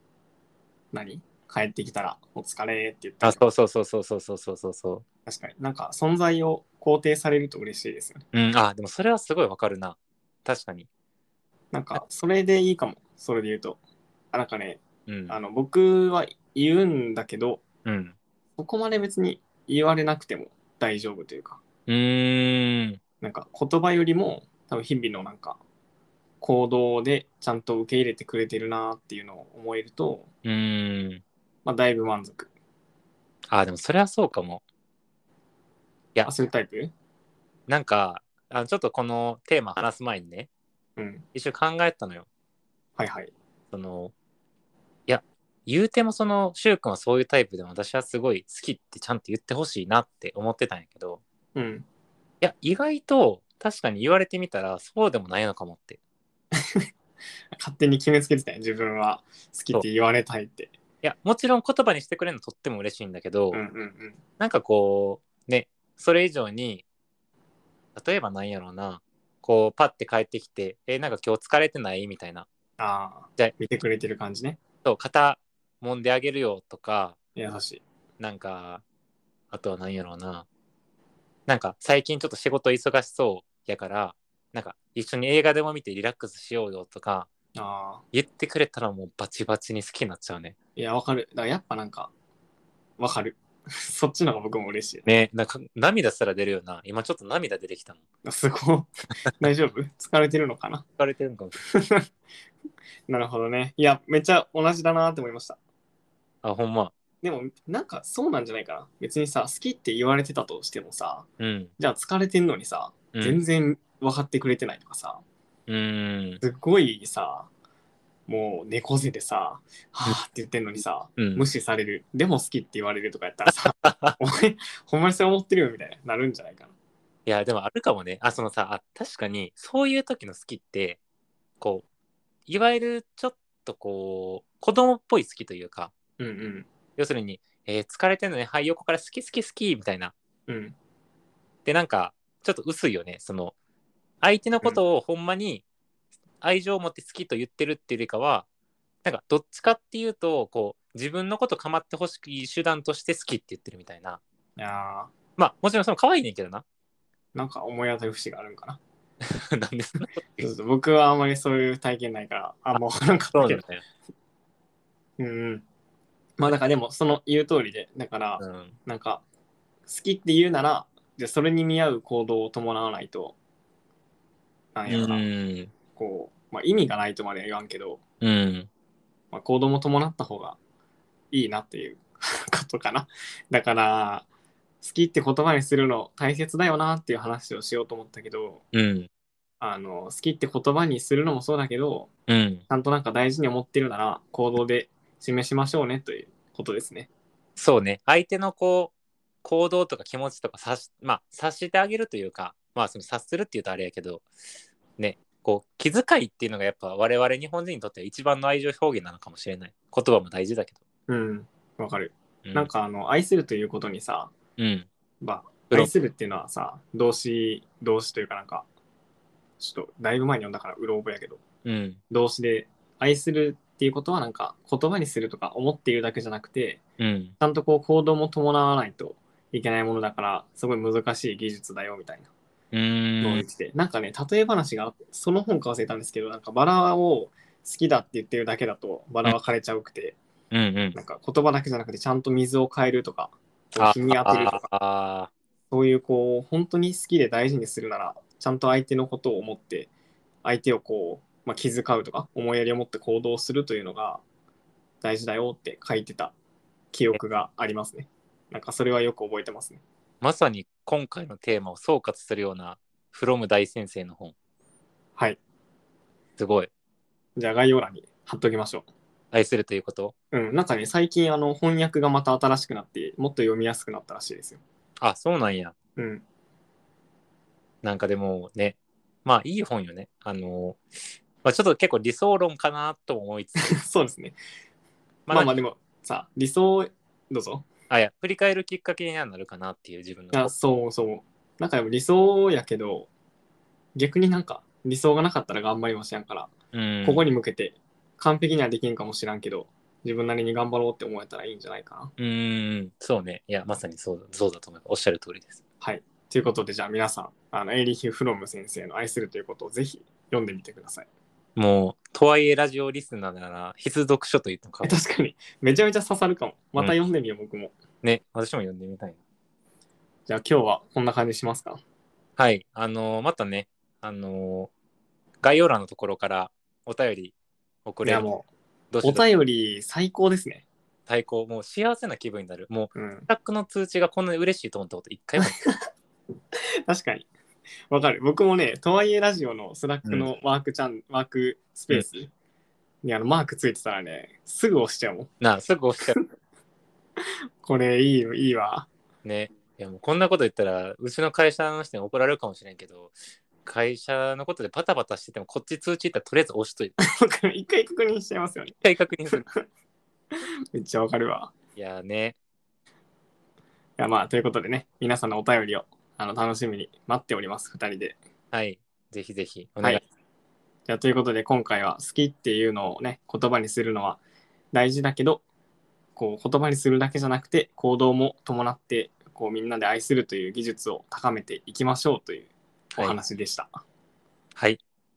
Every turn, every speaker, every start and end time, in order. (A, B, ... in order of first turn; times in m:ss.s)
0:00.9-0:03.4 A
0:03.2-0:05.0 B
0:05.3-0:08.2 A
0:08.3-0:10.9 B
0:11.7-0:13.8 A
0:14.3-0:17.6 A
0:15.1-0:15.4 B
0:17.8-0:18.2 B
0:18.6-0:21.6 A
0:21.9-0:23.0 B
0:23.2-0:25.6 A
0:26.4-0:30.3 A
0:30.4-0:31.2 B
0:31.6-0:32.5 A
0:33.5-0:34.6 B
0:36.3-0:36.9 A
0:37.7-0:40.5 B
0:41.0-0:41.2 A
0:41.3-0:42.3 B
0:43.0-0:43.3 A
0:43.7-0:44.1 B
0:45.1-0:51.2 B
0:51.6-0:51.9 A
0:52.4-0:56.0 B
0:56.6-0:56.9 A
0:57.5-1:00.7 A
1:01.0-1:03.6 B
1:03.5-1:04.2 A
1:04.4-1:06.8 B
1:08.0-1:12.5 B
1:12.8-1:14.6 A
1:14.8-1:17.2 B
1:17.4-1:17.8 A
1:18.2-1:18.8 B
1:19.5-1:20.5 B
1:21.5-1:27.3 B
1:27.6-1:28.0 A
1:28.1-1:30.6 B
1:30.8-1:32.1 A
1:33.0-1:35.1 A
1:35.0-1:38.0 B
1:38.2-1:40.9 A
1:41.0-1:41.6 B
1:41.6-1:42.1 A
1:43.1-1:45.6 A
1:46.4-1:46.9 B
1:47.2-1:51.3 A
1:51.4-1:51.7 B
1:51.8-1:55.2 A
1:55.7-1:56.4 B
1:56.4-1:57.5 A
1:58.3-2:06.7 A
2:01.2-2:01.4 B
2:03.8-2:04.2 B
2:07.3-2:11.0 B
2:12.5-2:15.9 B
2:16.2-2:16.7 A
2:17.0-2:20.1 B
2:20.5-2:20.8 A
2:21.7-2:23.6 B
2:24.2-2:25.6 B
2:26.4-2:28.5 B
2:29.0-2:34.2 B
2:34.6-2:35.1 A
2:35.4-2:36.6 B
2:37.3-2:38.8 A
2:39.3-2:40.5 B
2:40.4-2:43.6 A
2:43.3-2:43.8 B
2:45.2-2:45.6 A
2:46.4-2:49.2 A
2:48.4-2:48.7 B
2:49.9-2:53.4 A
2:54.8-2:55.3 A
2:54.9-2:55.7 B
2:55.9-2:58.0 A
2:58.2-2:58.7 B
2:59.3-3:00.6 A
3:01.3-3:04.3 A
3:04.8-3:08.6 A
3:08.7-3:09.1 B
3:09.6-3:12.1 A
3:12.3-3:12.6 B
3:12.7-3:17.1 A
3:17.6-3:18.9 B
3:19.4-3:24.3 B
3:25.0-3:30.8 B
3:31.1-3:34.3 A
3:32.4-3:32.7 B
3:34.6-3:34.9 B
3:35.2-3:38.7 A
3:39.6-3:41.4 A
3:41.6-3:42.0 B
3:42.1-3:46.8 A
3:47.0-3:47.3 B
3:47.4-3:52.3 A
3:52.7-3:53.5 B
3:53.2-4:00.2 A
4:00.5-4:01.0 B
4:01.0-4:04.7 A
4:03.8-4:05.3 B
4:05.7-4:09.9 A
4:10.4-4:14.2 A
4:15.0-4:16.4 A
4:16.9-4:19.8 A
4:20.2-4:24.3 B
4:26.4-4:26.7 B
4:27.4-4:28.9 A
4:29.3-4:30.1 B
4:30.3-4:34.6 A
4:35.0-4:35.7 B
4:36.0-4:36.2 A
4:37.8-4:40.8 B
4:41.4-4:43.8 B
4:43.6-4:44.4 A
4:45.3-4:45.6 B
4:45.3-4:47.6 A
4:47.9-4:50.5 B
4:50.3-4:53.1 A
4:54.0-4:56.5 A
4:56.7-4:57.3 B
4:57.0-5:02.1 A
5:02.2-5:05.6 B
5:05.8-5:11.1 A
5:11.6-5:15.0 B
5:14.8-5:17.7 A
5:18.0-5:19.2 B
5:20.3-5:21.8 A
5:22.4-5:24.7 B
5:25.4-5:27.3 B
5:27.9-5:28.3 B
5:28.0-5:28.5 A
5:28.9-5:29.3 B
5:29.0-5:30.6 A
5:31.1-5:35.6 B
5:33.0-5:33.3 A
5:35.4-5:35.7 A
5:36.9-5:37.3 A
5:37.9-5:42.3 A
5:40.0-5:40.3 B
5:43.0-5:45.3 A
5:45.4-5:46.2 B
5:47.6-5:48.9 A
5:49.2-5:57.0 B
5:57.0-5:58.8 A
5:58.8-5:59.5 B
5:59.3-5:59.6 A
6:00.7-6:01.5 A
6:01.8-6:02.4 B
6:04.0-6:08.2 A
6:08.5-6:10.0 B
6:10.9-6:14.2 A
6:14.7-6:15.4 A
6:16.2-6:23.8 A